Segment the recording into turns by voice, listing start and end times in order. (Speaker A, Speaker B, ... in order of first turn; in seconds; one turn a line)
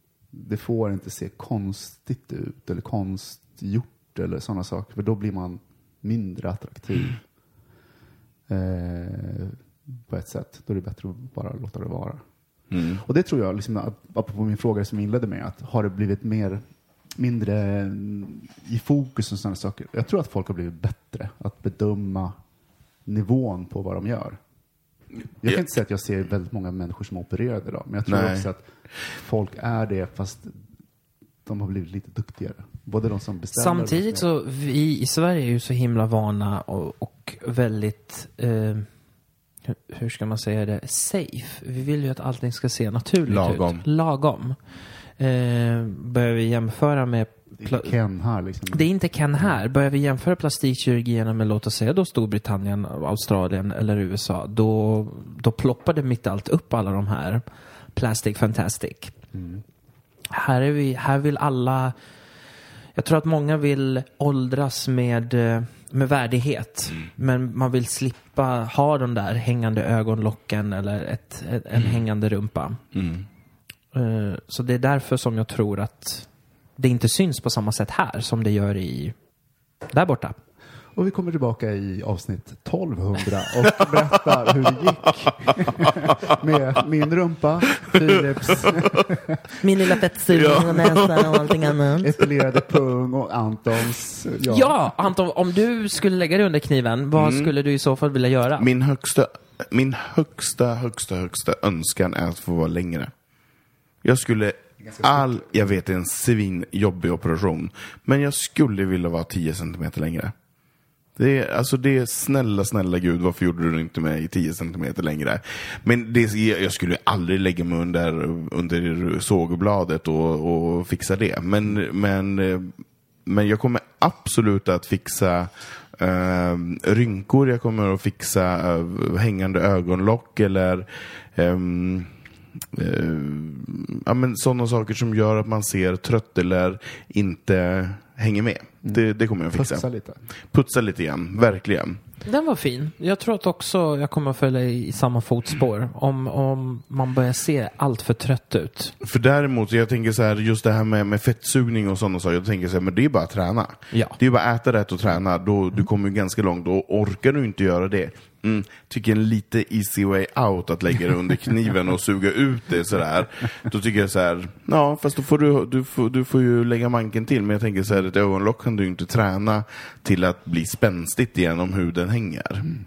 Speaker A: 0.3-7.2
Speaker A: 8.5-12.2
Speaker B: 12.7-13.0
Speaker A: 12.8-16.6
Speaker A: 17.2-22.3
Speaker A: 23.1-24.4
Speaker A: 25.4-30.6
Speaker B: 28.1-28.5
Speaker A: 31.4-34.3
Speaker C: 33.5-38.9
Speaker C: 39.7-44.6
Speaker B: 43.3-43.8
Speaker C: 45.2-47.9
Speaker A: 47.6-49.5
Speaker C: 48.7-57.4
Speaker C: 58.0-59.1
Speaker A: 59.3-59.6
Speaker C: 60.3-61.9
Speaker C: 63.0-72.8
Speaker B: 72.9-73.2
Speaker C: 73.9-76.2
Speaker C: 76.8-79.1
Speaker C: 79.9-80.4
Speaker A: 80.9-89.5
Speaker B: 85.8-86.3
Speaker B: 87.8-89.0
Speaker C: 89.6-92.1
Speaker B: 90.3-91.5
Speaker A: 92.0-94.8
Speaker C: 94.5-98.7
Speaker B: 97.2-97.5
Speaker B: 98.6-103.1
Speaker B: 104.0-110.3
Speaker A: 104.8-105.7
Speaker B: 111.2-122.7
Speaker B: 123.2-132.1
Speaker B: 132.7-139.8
Speaker A: 139.5-140.2
Speaker B: 140.5-142.0
Speaker C: 142.2-148.9
Speaker B: 149.0-172.7